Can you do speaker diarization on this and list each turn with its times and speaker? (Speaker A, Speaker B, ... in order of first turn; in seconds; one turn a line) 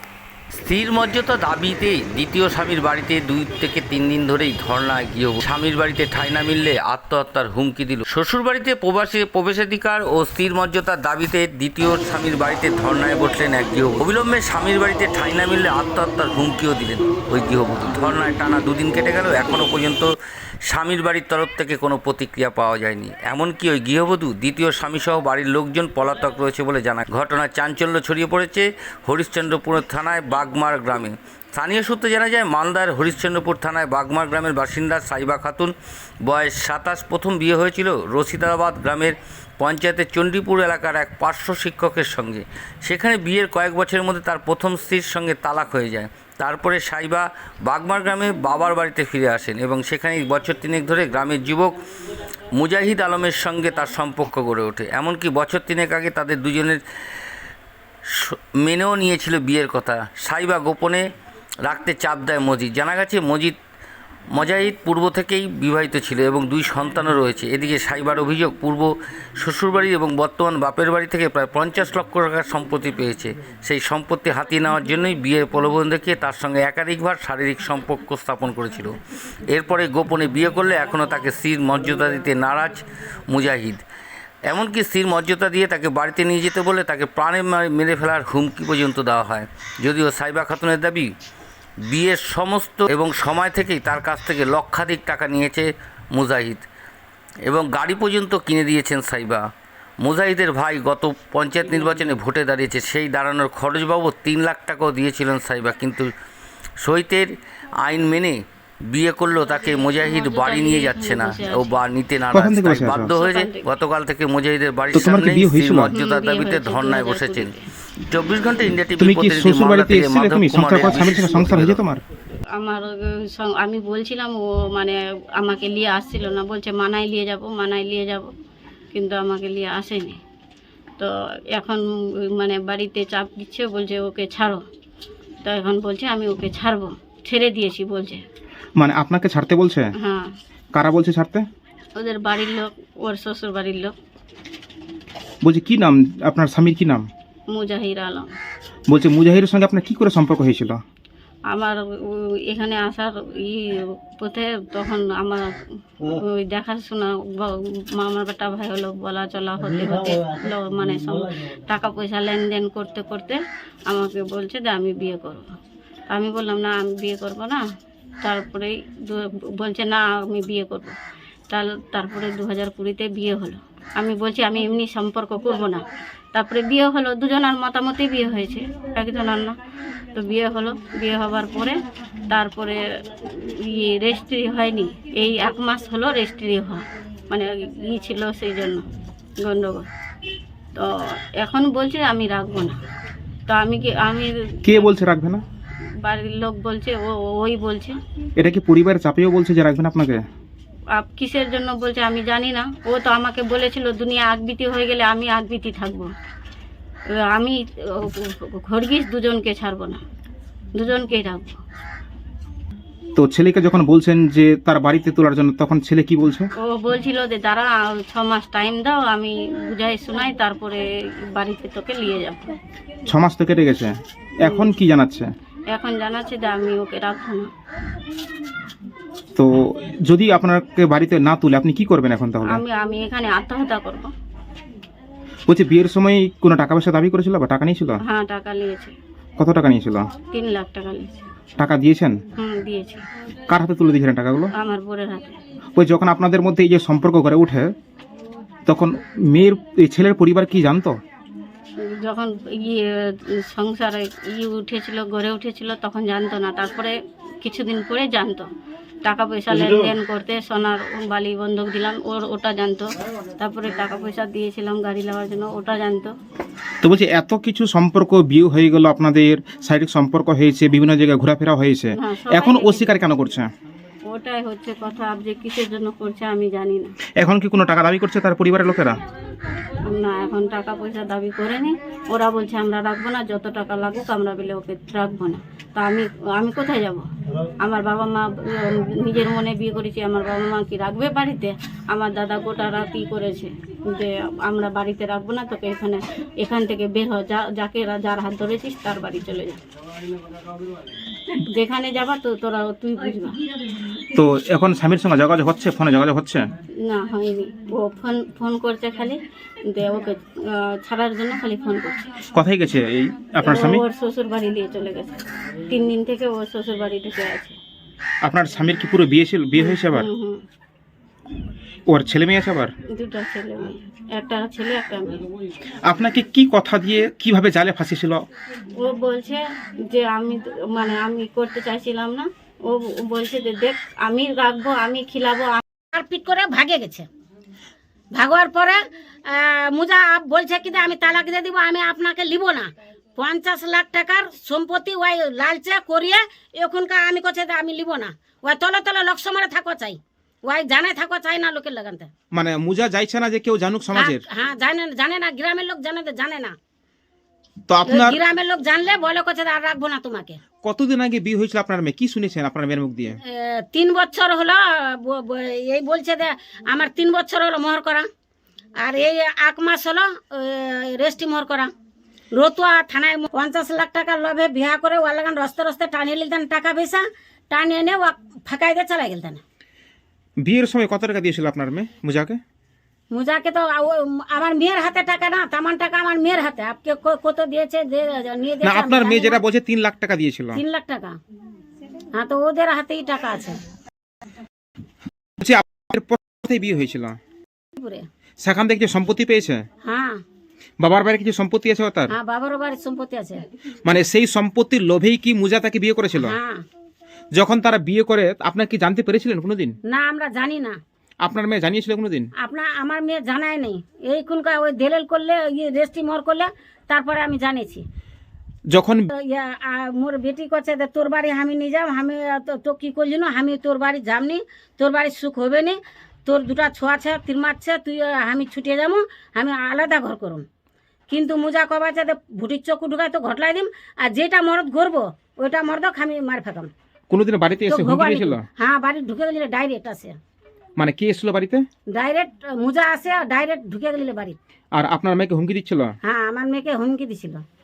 Speaker A: 0.5-20.1
Speaker A: 20.7-35.7
Speaker A: 36.2-51.8
Speaker A: 52.6-56.8
Speaker A: 58.1-61.0
Speaker A: 61.6-63.6
Speaker A: 64.3-83.8
Speaker A: 84.5-91.1
Speaker A: 91.9-96.7
Speaker A: 97.5-99.5
Speaker A: 100.0-106.1
Speaker A: 106.8-107.3
Speaker A: 107.8-117.5
Speaker B: 109.7-111.7
Speaker C: 112.3-113.1
Speaker B: 113.1-113.7
Speaker C: 114.9-115.9
Speaker B: 115.9-117.6
Speaker A: 118.1-121.8
Speaker C: 119.0-122.0
Speaker B: 122.6-128.3
Speaker B: 128.9-130.2
Speaker B: 131.0-134.6
Speaker B: 135.4-138.2
Speaker C: 138.8-139.9
Speaker B: 140.0-140.3
Speaker C: 140.7-141.4
Speaker B: 142.0-143.9
Speaker C: 145.4-147.1
Speaker B: 147.5-148.3
Speaker C: 148.9-150.8
Speaker B: 151.5-155.5
Speaker B: 156.0-165.5
Speaker B: 166.1-167.6
Speaker B: 168.2-171.0
Speaker B: 171.5-175.8
Speaker B: 176.3-179.5
Speaker B: 180.1-181.8
Speaker B: 182.3-188.8
Speaker B: 189.4-189.9
Speaker B: 191.4-192.8
Speaker B: 193.5-194.9
Speaker C: 194.7-195.4
Speaker B: 196.0-198.0
Speaker C: 198.4-200.2
Speaker B: 200.9-206.1
Speaker B: 207.3-210.0
Speaker B: 210.8-211.6
Speaker C: 213.2-216.5
Speaker B: 216.6-220.9
Speaker B: 221.4-222.5
Speaker C: 223.1-225.3
Speaker B: 224.4-224.7
Speaker B: 225.7-227.5
Speaker C: 229.4-232.6
Speaker B: 232.4-234.1
Speaker C: 235.5-238.0
Speaker B: 238.0-238.9
Speaker C: 239.4-240.1
Speaker B: 240.3-241.3
Speaker C: 241.6-242.2
Speaker B: 242.4-243.0
Speaker C: 243.5-244.5
Speaker B: 244.6-245.4
Speaker C: 245.8-247.7
Speaker C: 248.7-251.0
Speaker B: 251.8-258.5
Speaker B: 259.1-266.1
Speaker C: 266.8-273.5
Speaker B: 272.0-273.0
Speaker B: 274.1-276.9
Speaker C: 277.2-279.0
Speaker B: 279.9-287.1
Speaker B: 287.6-299.6
Speaker B: 301.5-303.4
Speaker C: 304.1-306.4
Speaker B: 306.9-312.1
Speaker C: 312.3-313.8
Speaker B: 313.4-317.6
Speaker C: 318.2-320.1
Speaker B: 319.6-320.4
Speaker C: 321.9-322.7
Speaker B: 322.9-325.2
Speaker C: 325.9-328.2
Speaker B: 328.8-335.6
Speaker D: 335.9-337.1
Speaker D: 338.2-352.1
Speaker C: 352.3-354.2
Speaker D: 353.9-356.6
Speaker C: 357.7-358.2
Speaker D: 357.9-360.4
Speaker C: 360.6-363.2
Speaker D: 363.2-368.1
Speaker D: 368.8-371.7
Speaker D: 372.3-379.4
Speaker C: 380.4-382.4
Speaker D: 383.1-389.4
Speaker C: 388.6-390.6
Speaker D: 390.5-391.2
Speaker D: 392.1-393.6
Speaker C: 395.4-397.2
Speaker D: 397.8-398.1
Speaker C: 398.4-399.6
Speaker D: 399.8-400.2
Speaker C: 400.8-402.1
Speaker D: 402.1-403.4
Speaker C: 403.9-406.4
Speaker D: 406.2-406.6
Speaker C: 407.4-409.7
Speaker D: 409.9-410.8
Speaker C: 411.2-412.3
Speaker D: 412.4-417.8
Speaker C: 418.7-419.1
Speaker D: 419.1-430.5
Speaker D: 431.1-436.7
Speaker C: 437.1-438.4
Speaker D: 437.7-440.2
Speaker C: 440.8-441.6
Speaker D: 441.9-444.4
Speaker C: 444.8-445.9
Speaker D: 446.0-447.4